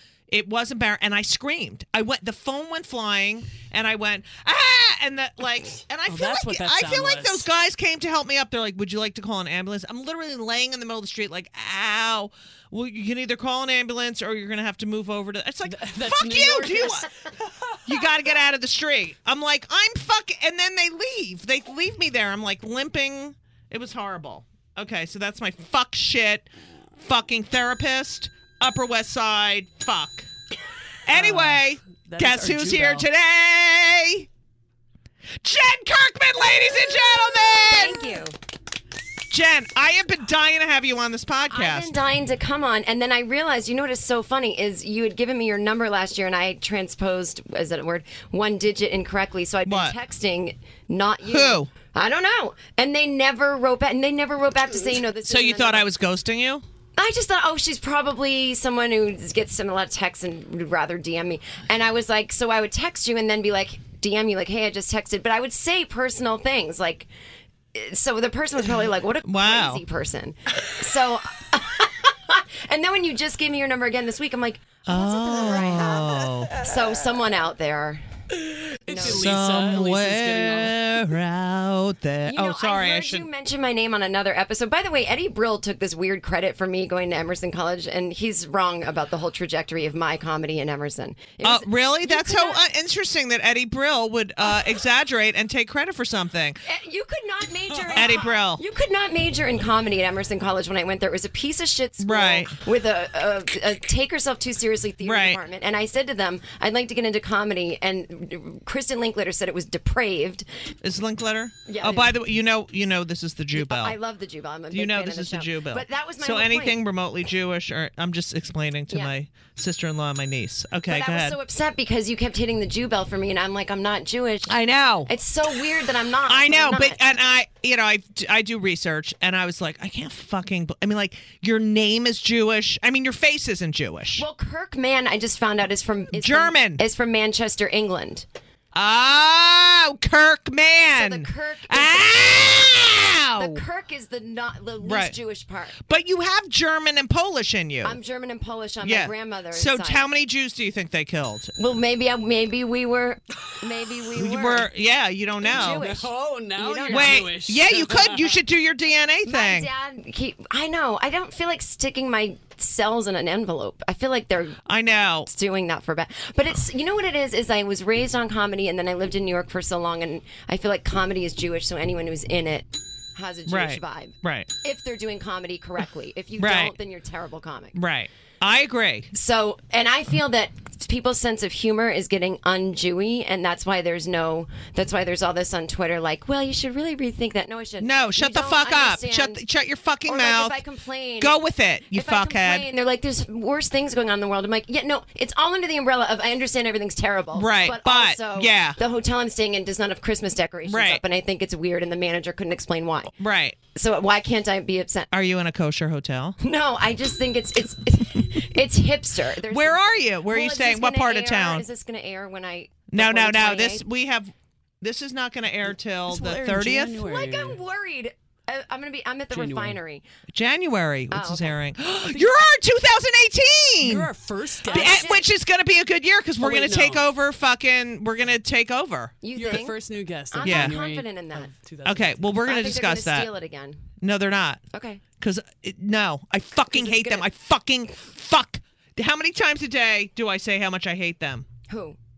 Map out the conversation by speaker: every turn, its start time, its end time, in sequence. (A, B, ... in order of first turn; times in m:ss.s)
0:00.3-0:17.1 A
0:06.1-0:07.4 B
0:15.6-0:17.1 B
0:17.8-0:26.5 A
0:27.0-0:30.3 A
0:31.1-0:34.3 A
0:31.1-0:33.1 B
0:35.4-0:38.2 A
0:37.7-0:38.4 C
0:39.3-0:42.0 A
0:41.5-0:55.9 C
0:49.7-0:50.0 A
0:51.2-0:51.7 A
0:55.2-0:56.6 A
0:57.0-1:07.1 C
1:07.7-1:18.0 C
1:09.2-1:09.8 A
1:14.9-1:16.6 A
1:18.8-1:21.0 B
1:18.9-1:19.2 C
1:19.0-1:23.3 A
1:22.2-1:32.6 C
1:31.4-1:36.6 A
1:36.6-1:50.5 C
1:37.9-1:38.6 A
1:42.0-1:42.5 A
1:45.0-1:45.4 A
1:50.8-1:54.0 A
1:51.6-1:52.2 C
1:53.5-1:56.8 C
1:54.7-2:01.4 A
1:58.9-1:59.2 C
2:00.9-2:04.6 C
2:04.5-2:05.1 A
2:05.1-2:07.0 C
2:06.3-2:14.2 A
2:14.2-2:18.2 C
2:16.1-2:16.8 A
2:18.7-2:23.6 A
2:20.9-2:22.5 C
2:23.4-2:25.8 C
2:24.8-2:25.2 A
2:25.9-2:28.0 A
2:27.8-2:30.0 C
2:28.8-2:31.5 A
2:31.6-2:34.7 C
2:34.2-2:35.8 A
2:35.4-2:37.3 C
2:35.5-2:38.4 B
2:36.9-2:39.7 A
2:39.2-2:44.6 C
2:44.7-2:45.3 A
2:45.2-2:57.8 C
2:53.5-2:54.5 A
2:56.4-2:56.7 A
2:57.8-2:59.1 A
2:59.1-3:09.4 C
3:07.8-3:10.6 A
3:10.1-3:11.4 C
3:11.2-3:12.7 A
3:11.9-3:25.1 C
3:17.3-3:18.8 A
3:20.6-3:21.0 A
3:23.2-3:23.6 A
3:25.1-3:26.4 A
3:26.4-3:33.8 C
3:29.5-3:31.6 A
3:32.9-3:37.0 A
3:36.1-3:37.6 B
3:37.0-3:40.0 C
3:39.3-3:39.8 B
3:40.3-3:44.1 A
3:41.1-3:41.6 C
3:43.8-3:45.1 B
3:44.7-3:45.2 C
3:44.7-3:49.2 A
3:46.4-3:47.0 B
3:49.2-3:49.8 C
3:49.3-3:52.3 B
3:50.3-3:51.5 C
3:50.4-3:50.8 A
3:51.8-3:53.3 A
3:52.4-3:53.8 C
3:54.0-3:54.6 A
3:54.7-3:55.0 C
3:55.2-4:01.5 A
3:56.7-3:57.3 C
4:01.7-4:02.0 C